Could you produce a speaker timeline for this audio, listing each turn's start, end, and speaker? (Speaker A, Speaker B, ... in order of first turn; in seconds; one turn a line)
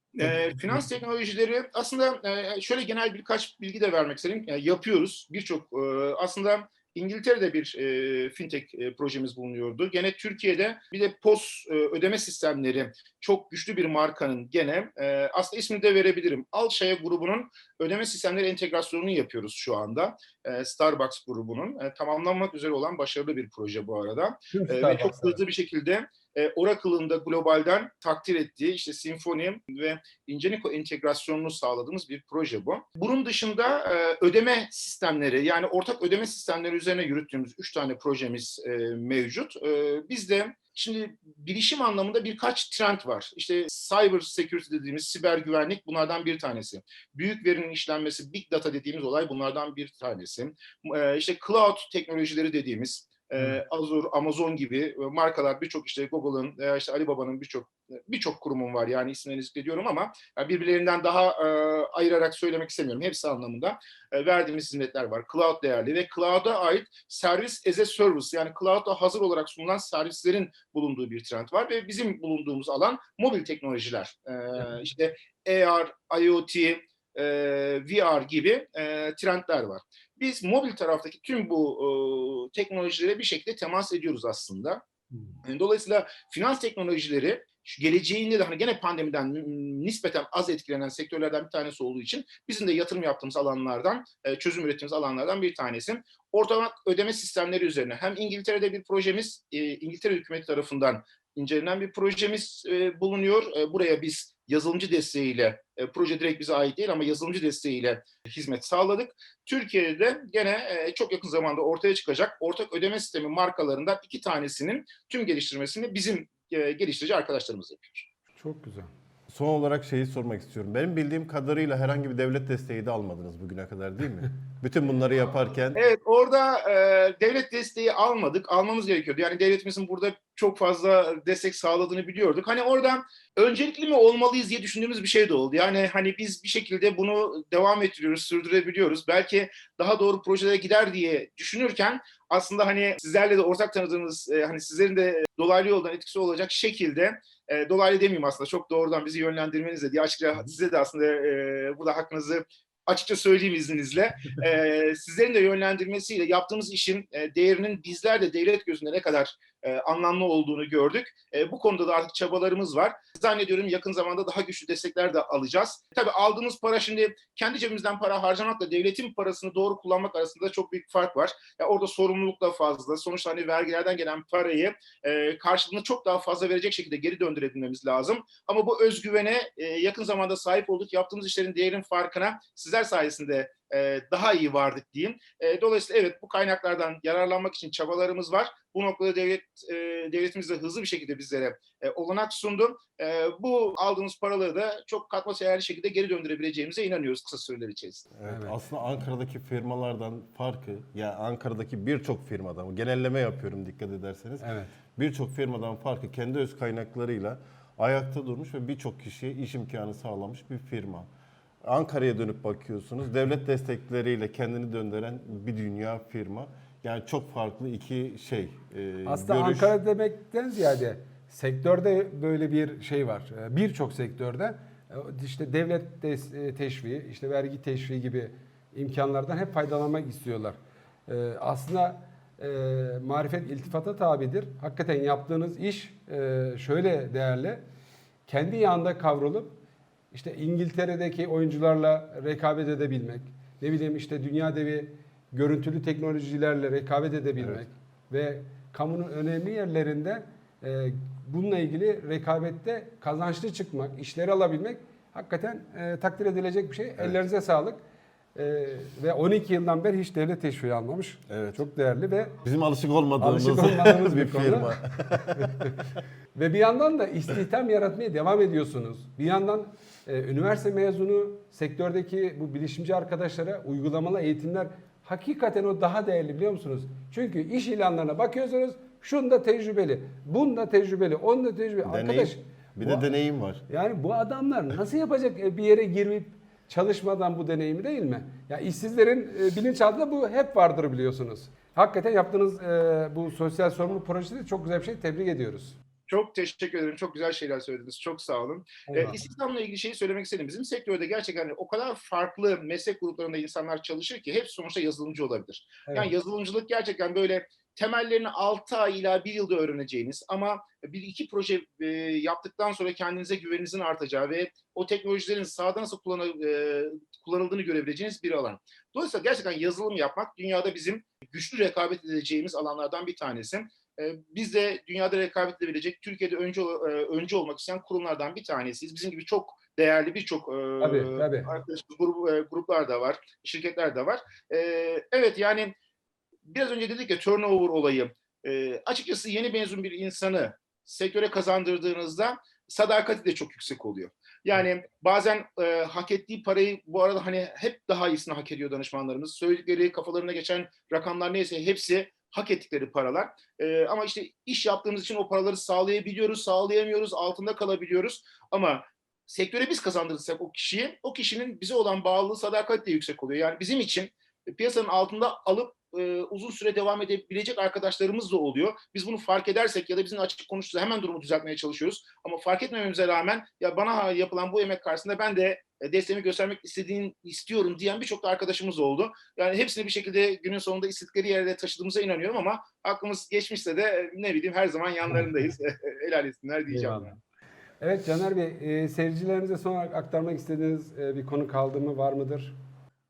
Speaker A: 0.1-84.8
Speaker B: 24.5-25.4
Speaker A: 85.4-118.1
Speaker B: 118.4-118.9
Speaker C: 119.3-125.8
Speaker A: 125.7-198.1
Speaker C: 198.2-211.1
Speaker B: 198.2-198.5
Speaker B: 204.4-204.7
Speaker C: 211.6-219.7
Speaker B: 219.1-237.6
Speaker B: 238.3-239.6
Speaker B: 240.1-257.8
Speaker B: 258.3-262.4
Speaker C: 261.3-261.6
Speaker C: 262.4-265.6
Speaker B: 263.2-265.8
Speaker B: 266.3-283.1
Speaker C: 281.8-283.6
Speaker B: 283.7-295.8
Speaker A: 296.1-335.7
Speaker B: 298.9-299.2
Speaker B: 305.9-306.1
Speaker B: 330.8-331.5
Speaker A: 336.4-387.1
Speaker B: 386.7-387.1
Speaker B: 387.8-392.6